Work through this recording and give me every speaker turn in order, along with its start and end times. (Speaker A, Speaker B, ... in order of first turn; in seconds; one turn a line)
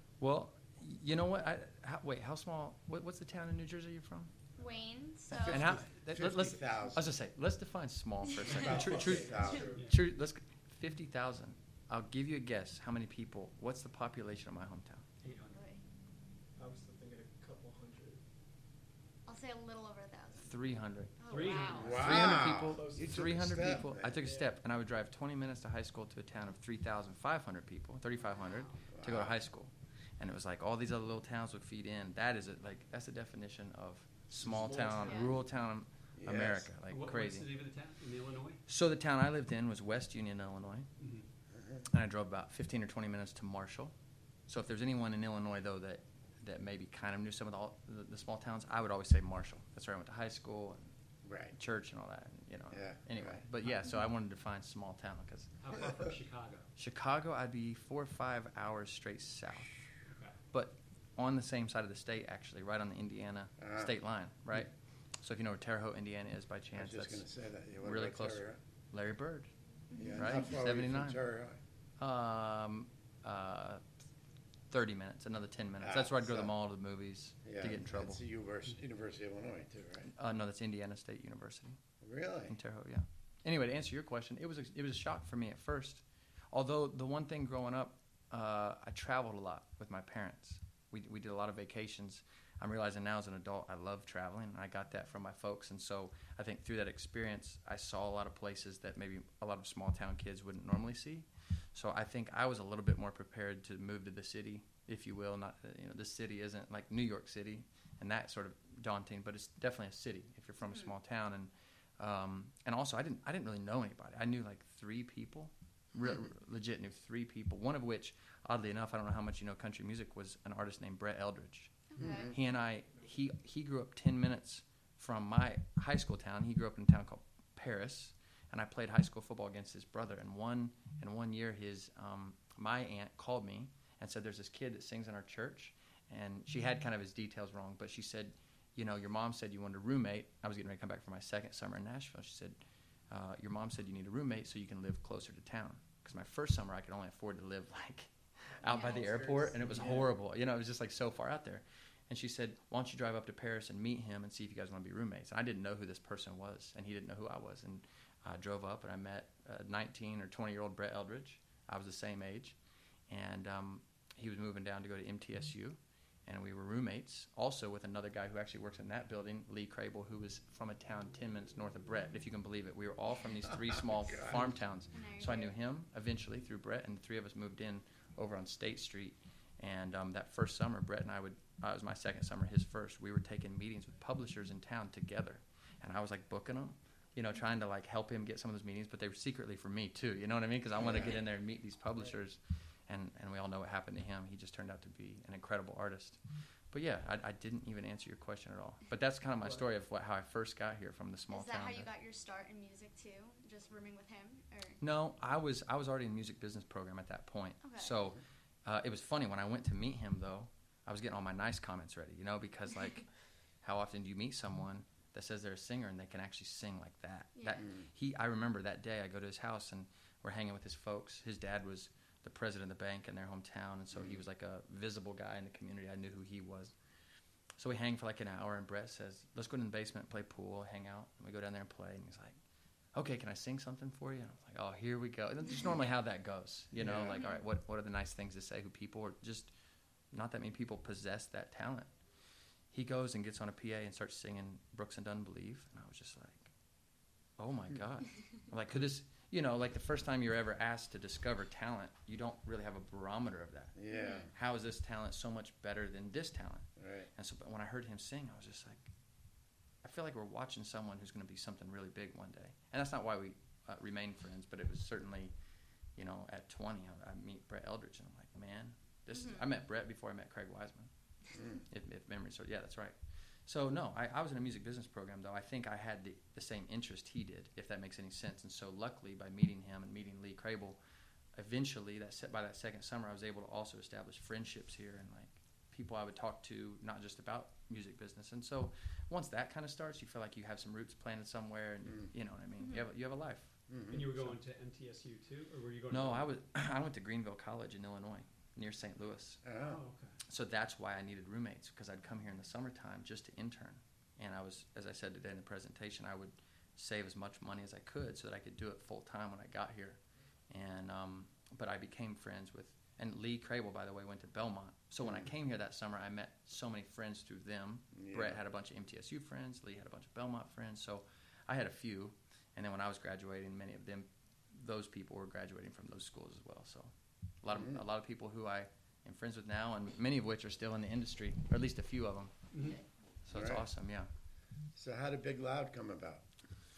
Speaker A: 0.2-4.3
Speaker B: 4.6-5.8
Speaker C: 5.3-7.1
Speaker A: 5.4-15.1
Speaker C: 8.5-9.8
Speaker D: 8.6-9.9
Speaker E: 15.2-15.6
Speaker B: 15.5-15.8
Speaker D: 16.6-18.2
Speaker B: 19.2-20.5
Speaker A: 20.3-37.5
Speaker B: 21.2-22.1
Speaker E: 21.3-21.9
Speaker D: 21.4-24.5
Speaker C: 21.7-24.2
Speaker B: 28.4-28.7
Speaker C: 28.9-29.4
Speaker D: 34.4-35.4
Speaker B: 35.0-35.4
Speaker C: 36.1-36.7
Speaker E: 36.9-38.6
Speaker A: 38.7-40.9
Speaker E: 41.0-41.2
Speaker C: 41.5-41.8
Speaker A: 41.9-43.9
Speaker A: 44.5-50.9
Speaker C: 51.2-51.5
Speaker A: 51.5-55.6
Speaker C: 52.7-53.4
Speaker E: 55.6-56.7
Speaker A: 56.8-59.8
Speaker E: 60.1-60.4
Speaker A: 60.5-67.3
Speaker C: 63.6-63.9
Speaker C: 66.7-68.6
Speaker A: 67.8-69.5
Speaker B: 69.9-70.5
Speaker C: 70.0-71.6
Speaker A: 70.1-71.2
Speaker A: 72.0-73.8
Speaker A: 74.7-78.2
Speaker C: 75.8-76.5
Speaker C: 77.4-80.1
Speaker A: 80.0-81.8
Speaker C: 82.0-82.5
Speaker A: 82.5-142.6
Speaker B: 121.9-122.3
Speaker C: 122.0-122.3
Speaker A: 143.1-162.6
Speaker D: 148.7-150.1
Speaker B: 148.7-149.1
Speaker A: 163.1-201.9
Speaker C: 174.1-174.5
Speaker B: 174.9-175.5
Speaker C: 190.8-191.2
Speaker B: 201.3-204.8
Speaker A: 204.8-213.1
Speaker B: 207.6-208.1
Speaker A: 213.6-226.7
Speaker B: 217.3-217.6
Speaker C: 217.6-217.8
Speaker C: 223.9-224.2
Speaker A: 227.6-232.4
Speaker A: 232.9-239.5
Speaker C: 236.7-237.2
Speaker B: 237.1-237.4
Speaker A: 240.1-241.9
Speaker A: 242.7-246.5
Speaker A: 247.4-253.7
Speaker C: 253.8-254.3
Speaker B: 253.9-254.3
Speaker A: 254.3-258.9
Speaker C: 256.8-257.1
Speaker A: 259.8-265.3
Speaker A: 265.9-270.9
Speaker B: 269.1-269.5
Speaker A: 271.5-280.8
Speaker A: 281.3-294.4
Speaker B: 292.6-292.9
Speaker C: 293.7-294.0
Speaker E: 293.9-296.3
Speaker A: 295.9-299.4
Speaker C: 299.4-299.8
Speaker E: 299.6-300.2
Speaker A: 300.3-332.4
Speaker C: 315.0-315.3
Speaker C: 317.9-318.4
Speaker C: 327.5-327.8
Speaker E: 332.5-332.8
Speaker A: 333.2-334.1
Speaker C: 333.3-333.6
Speaker C: 334.7-336.2